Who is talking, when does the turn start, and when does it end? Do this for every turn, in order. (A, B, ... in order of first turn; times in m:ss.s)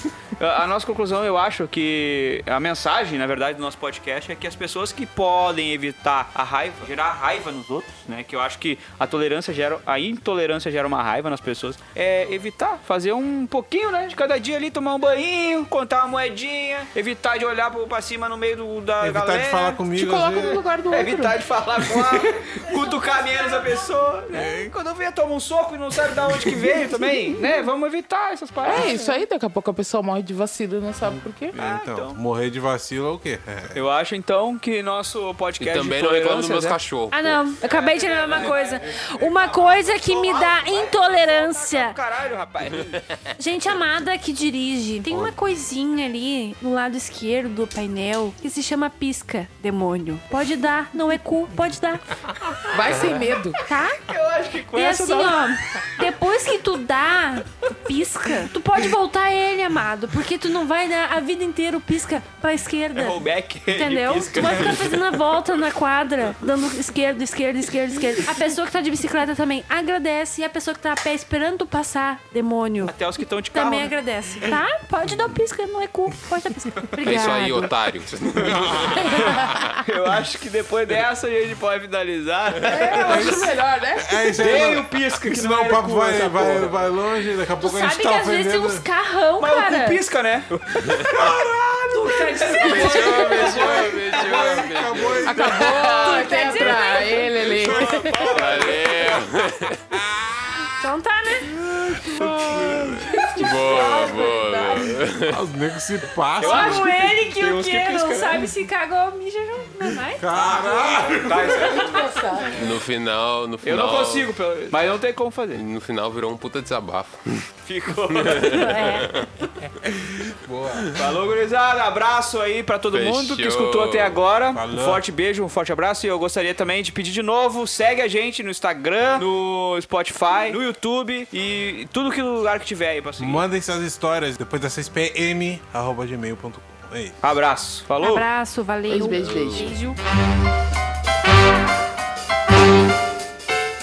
0:00.4-0:19.8 A
0:19.0-0:20.6 B
0:20.0-0:21.4 C
0:20.9-0:28.9 A
0:22.6-0:23.8 D
0:24.3-0:24.7 B
0:26.3-0:26.6 B
0:28.6-0:31.5 C
0:28.7-0:29.2 D
0:31.0-0:33.8 B
0:31.6-0:32.2 A
0:33.8-0:36.8 A
0:35.6-0:37.4 E
0:37.1-0:42.0 D
0:37.6-0:43.0 A
0:43.4-0:52.2 D
0:45.1-0:45.4 B
0:52.7-0:53.6 C
0:53.6-0:54.0 D
0:54.1-0:55.6 A
0:54.8-1:13.0 D
1:03.0-1:05.2 A
1:12.8-1:14.0 A
1:13.5-1:17.7 D
1:17.0-1:19.8 E
1:18.4-1:19.4 B
1:19.8-1:23.4 A
1:22.6-1:24.2 C
1:23.0-1:28.8 B
1:24.4-1:26.8 A
1:27.6-1:30.0 D
1:29.4-1:34.6 A
1:31.1-1:31.5 B
1:32.0-1:33.4 D
1:32.6-1:36.2 E
1:33.3-1:35.8 B
1:35.2-1:38.3 C
1:35.9-1:37.4 D
1:37.5-1:39.2 A
1:37.8-1:38.7 B
1:38.2-1:40.0 E
1:39.9-1:40.7 B
1:40.8-1:41.5 D
1:41.5-1:43.3 B
1:42.0-1:43.1 A
1:43.1-1:44.9 C
1:43.4-1:45.4 E
1:43.8-1:44.3 D
1:45.3-1:47.1 B
1:46.4-1:50.2 D
1:46.4-1:48.6 A
1:50.2-1:52.0 B
1:50.3-1:52.1 A
1:51.6-1:52.6 C
1:52.5-1:54.3 E
1:53.6-1:55.6 A
1:55.5-1:57.5 E
1:57.6-1:58.8 A
1:58.1-2:01.0 E
1:58.5-1:59.1 D
2:01.0-2:13.4 A
2:02.9-2:04.2 E
2:04.5-2:05.0 B
2:13.2-2:17.2 B
2:17.2-2:18.3 A
2:18.0-2:20.0 D
2:18.9-2:19.7 C
2:19.1-2:19.7 E